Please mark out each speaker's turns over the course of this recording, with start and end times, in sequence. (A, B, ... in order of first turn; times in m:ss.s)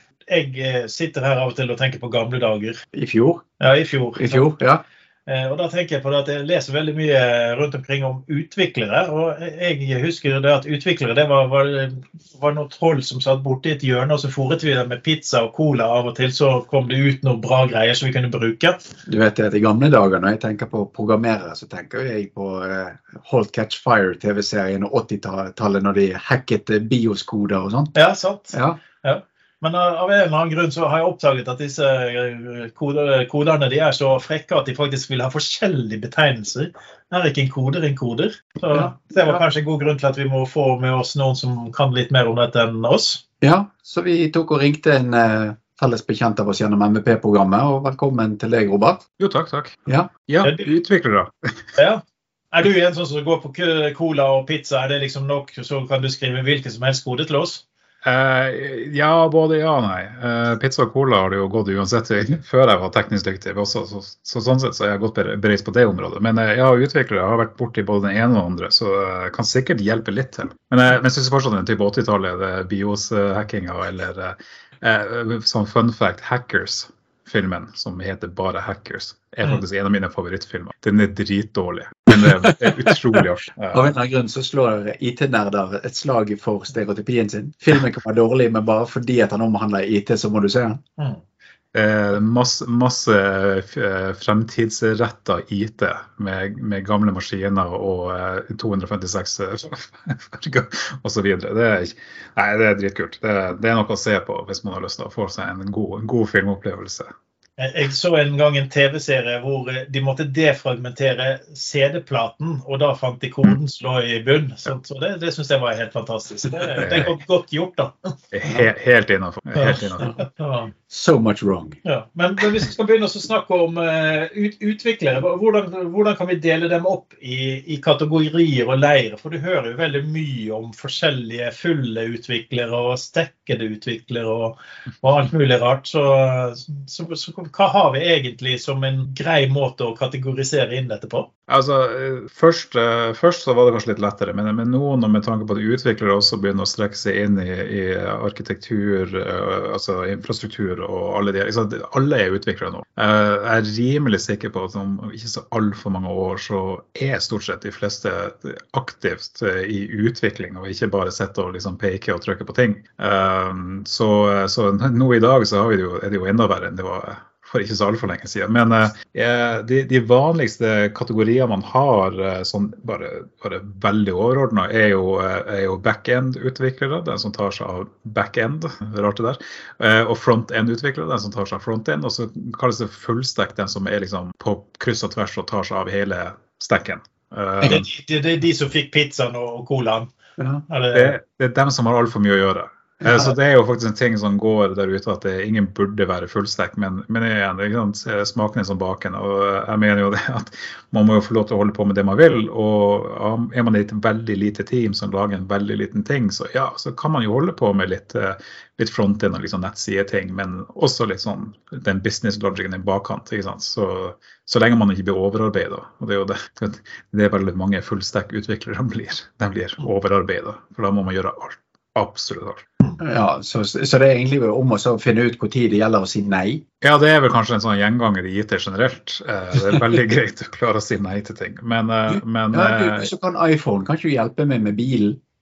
0:00.3-0:02.8 A
0:02.9-0:03.4 B
0:03.6-0:04.6 A
0:04.2-0:04.8 B
0:05.3-0:18.8 A
0:19.0-0:27.9 B
0:28.0-0:43.2 A
0:28.5-0:28.8 B
0:38.7-0:39.4 B
0:43.4-0:49.0 B
0:49.2-0:49.8 C
0:50.3-0:51.8 C
0:50.4-0:50.7 A
0:51.8-0:57.6 A
0:58.0-1:23.8 C
1:22.1-1:30.8 B
1:31.7-1:47.1 C
1:47.6-1:58.1 A
1:56.8-1:57.1 C
1:58.3-2:00.1 C
1:59.6-2:00.7 A
2:00.9-2:01.8 B
2:01.8-2:21.3 A
2:21.5-3:07.8 C
3:07.6-3:10.1 A
3:10.4-3:10.6 B
3:10.7-3:11.2 A
3:10.9-3:42.6 C
3:43.0-3:46.6 B
3:46.8-3:53.1 C
3:52.1-3:55.2 B